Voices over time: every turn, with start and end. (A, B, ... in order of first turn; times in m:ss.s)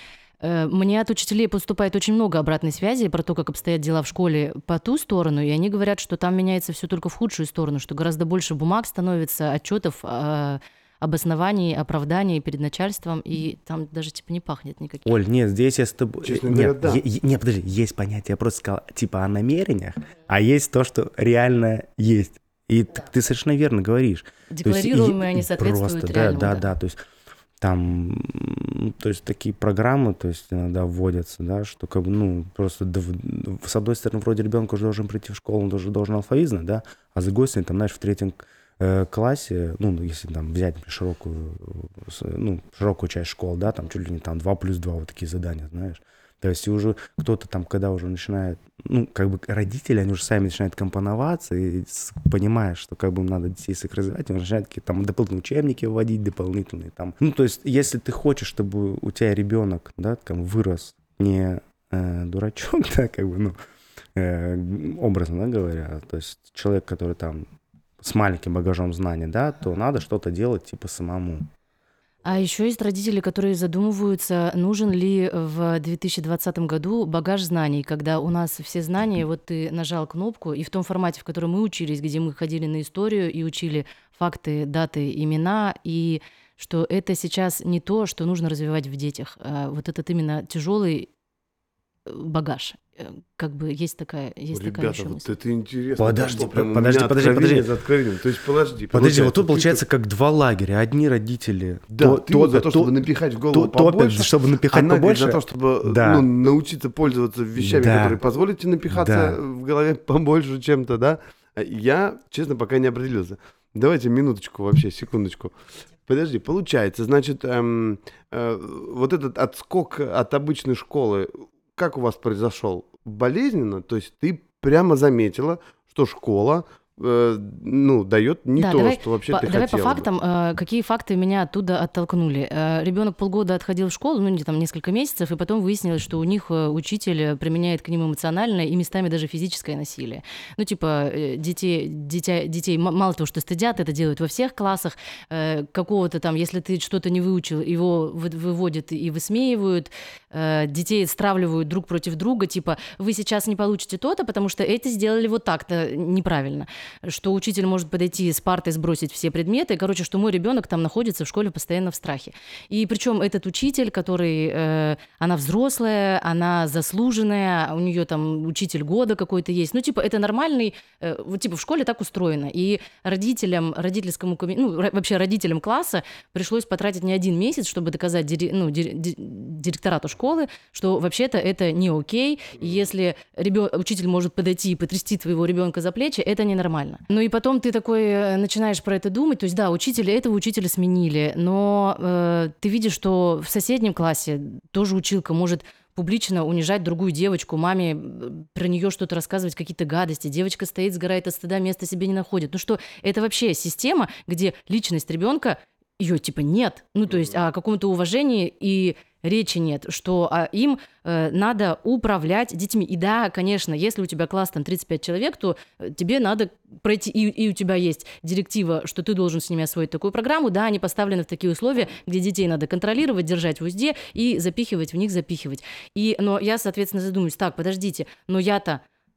0:00.4-0:15.2 A
0:15.0-0:27.0 B
0:16.2-0:17.0 C
0:24.5-0:26.6 A
0:27.6-1:03.5 B
1:04.1-1:07.4 B
1:08.0-1:11.5 B
1:12.2-1:31.1 A
1:32.1-1:35.3 A
1:34.5-1:39.8 C
1:36.0-1:37.7 B
1:38.9-1:42.9 B
1:41.9-1:55.5 C
1:43.5-1:46.2 B
1:47.6-1:48.2 B
1:48.9-1:49.4 B
1:56.0-2:10.1 C
2:08.6-3:48.8 A